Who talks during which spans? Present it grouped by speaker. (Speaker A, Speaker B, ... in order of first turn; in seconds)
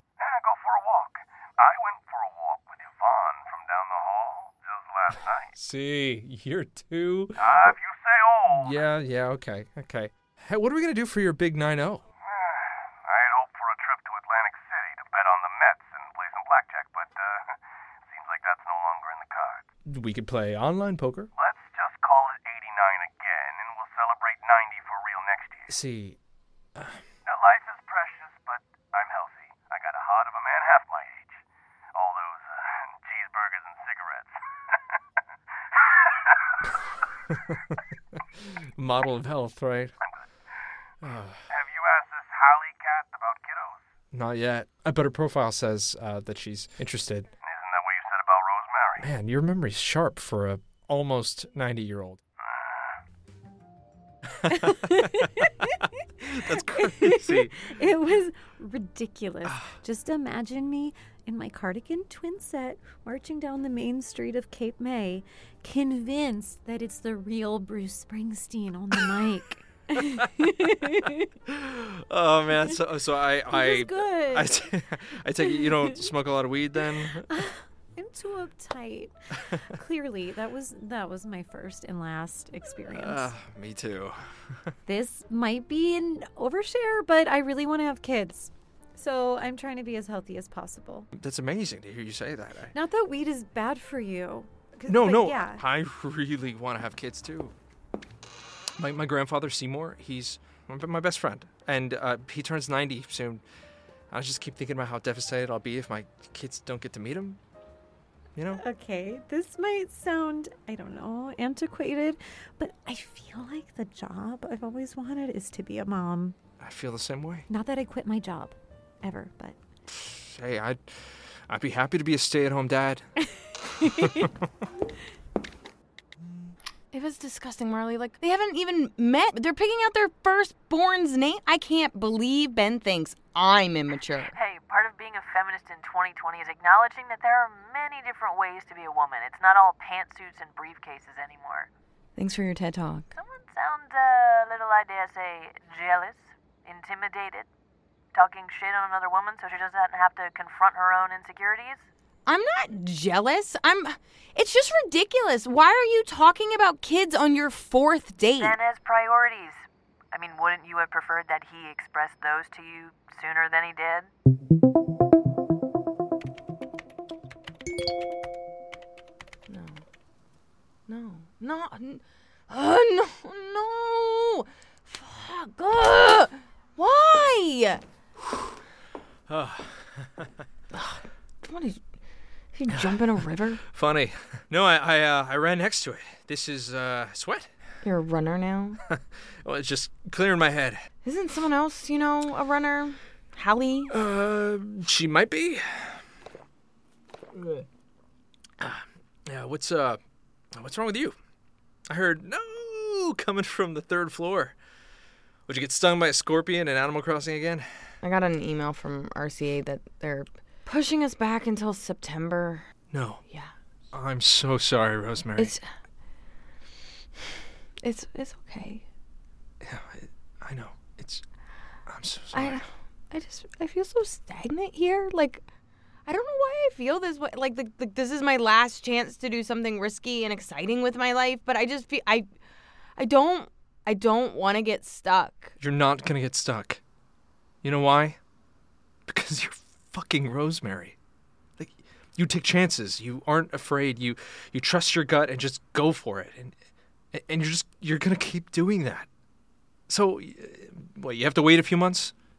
Speaker A: 0.2-5.5, 7.4-8.9, 12.2-17.5, 18.1-19.6, 21.4-25.7, 27.2-31.4, 31.9-34.3, 41.5-43.8, 47.5-49.1
Speaker B: 5.5-7.7, 8.5-12.0, 19.9-21.3, 25.7-26.2, 37.3-37.8, 38.5-39.9, 41.0-41.4, 44.1-47.3, 49.0-52.2, 56.3-57.6, 71.5-77.3, 82.9-84.7, 91.1-92.7, 94.9-97.5, 98.8-103.4, 104.1-107.4, 108.4-108.6, 116.6-117.5, 119.9-120.8, 121.5-123.0, 123.8-124.3, 179.3-180.3, 183.7-187.5, 188.9-190.8, 193.9-196.0, 197.4-197.6, 198.6-200.0, 200.5-201.2, 201.9-204.6, 205.5-207.7, 212.9-213.2, 213.9-215.5, 219.6-221.2, 221.9-222.6, 235.6-236.8, 237.6-238.2, 239.1-241.0, 241.6-246.5, 247.1-249.1, 249.9-252.1
Speaker C: 54.5-71.3, 73.5-74.5, 77.3-83.3, 84.9-91.1, 92.7-95.6, 108.5-116.4, 117.5-119.6, 123.8-124.2
Speaker D: 126.9-134.3, 142.2-143.1, 152.2-158.6, 169.5-169.8, 170.9-177.8, 180.7-181.8, 182.5-183.6, 187.8-188.8, 191.0-193.9, 208.0-212.6, 215.4-215.6, 217.8-218.8, 222.3-225.4, 226.1-232.3, 233.0-235.5
Speaker E: 134.2-141.7, 143.1-147.5, 148.1-151.9, 158.4-164.1